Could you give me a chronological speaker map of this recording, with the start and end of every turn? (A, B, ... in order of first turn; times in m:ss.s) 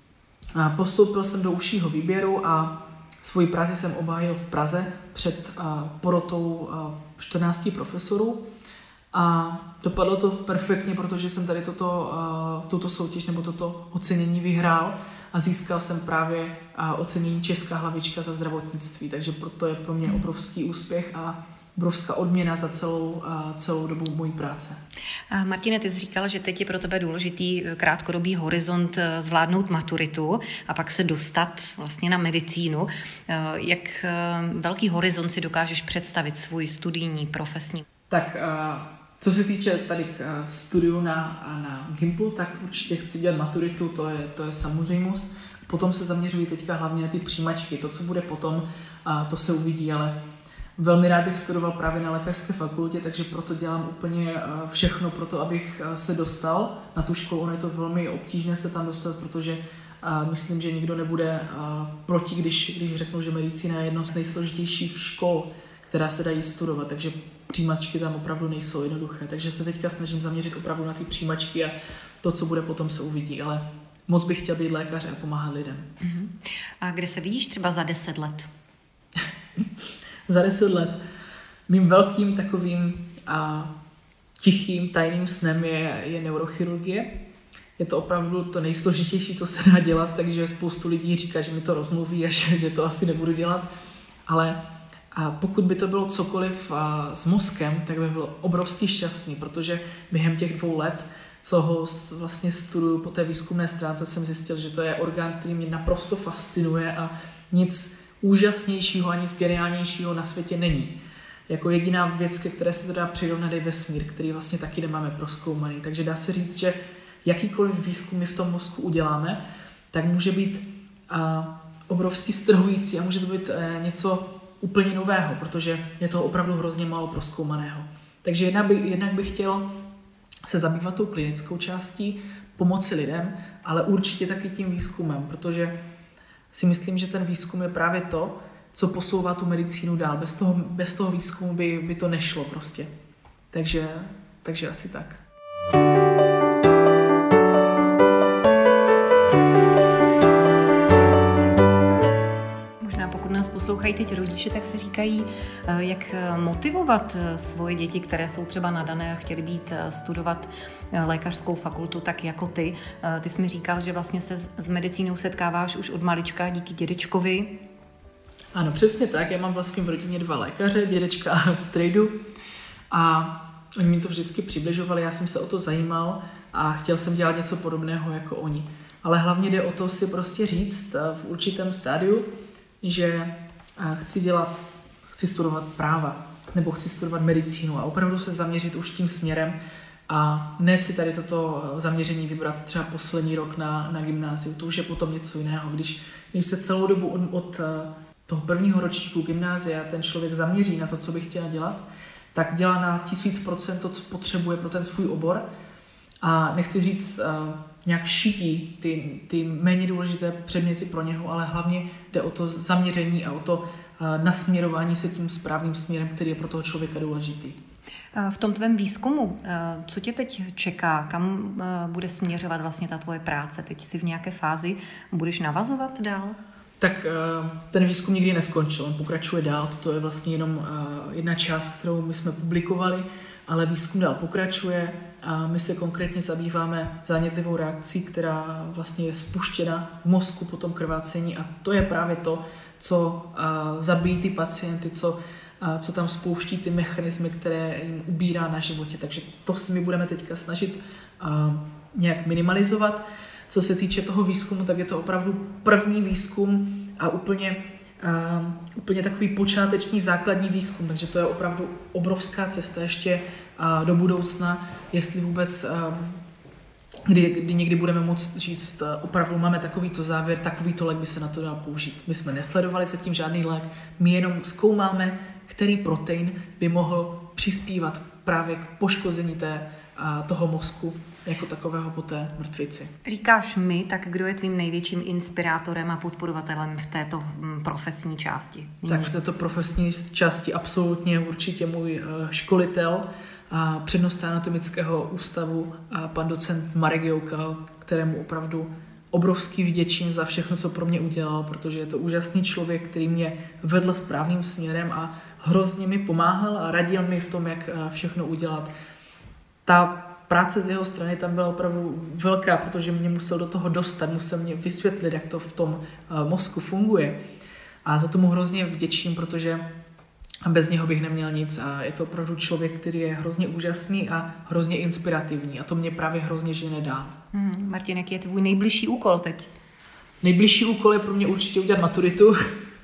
0:00.6-0:08.5 A
0:09.1-0:24.8 A
0:25.3-0:37.9 B
0:38.1-0:50.2 A
0:50.8-1:15.9 A
1:16.0-1:18.5 B
1:20.3-1:21.0 A
1:21.7-1:23.7 A
1:24.4-1:27.2 A
1:27.8-1:33.7 A
1:34.3-1:34.6 A
1:35.1-1:51.0 A
1:51.5-1:59.4 A
1:59.9-2:09.8 A
2:10.5-2:15.8 A
2:16.5-2:22.9 A
2:23.5-2:25.2 A
2:32.8-2:47.6 B
2:48.5-2:52.2 A
2:52.9-3:02.3 A
3:02.8-3:04.6 A
3:05.1-3:09.6 A
3:10.1-3:25.4 A
3:26.2-3:37.6 A
3:38.2-3:46.4 B
3:46.8-4:26.2 A
4:27.1-4:42.9 A
4:43.1-4:49.1 B
4:48.9-5:08.7 A
5:09.7-5:17.2 A
5:17.8-5:19.6 A
5:20.4-5:27.2 A
5:27.3-5:29.5 B
5:30.2-5:32.4 A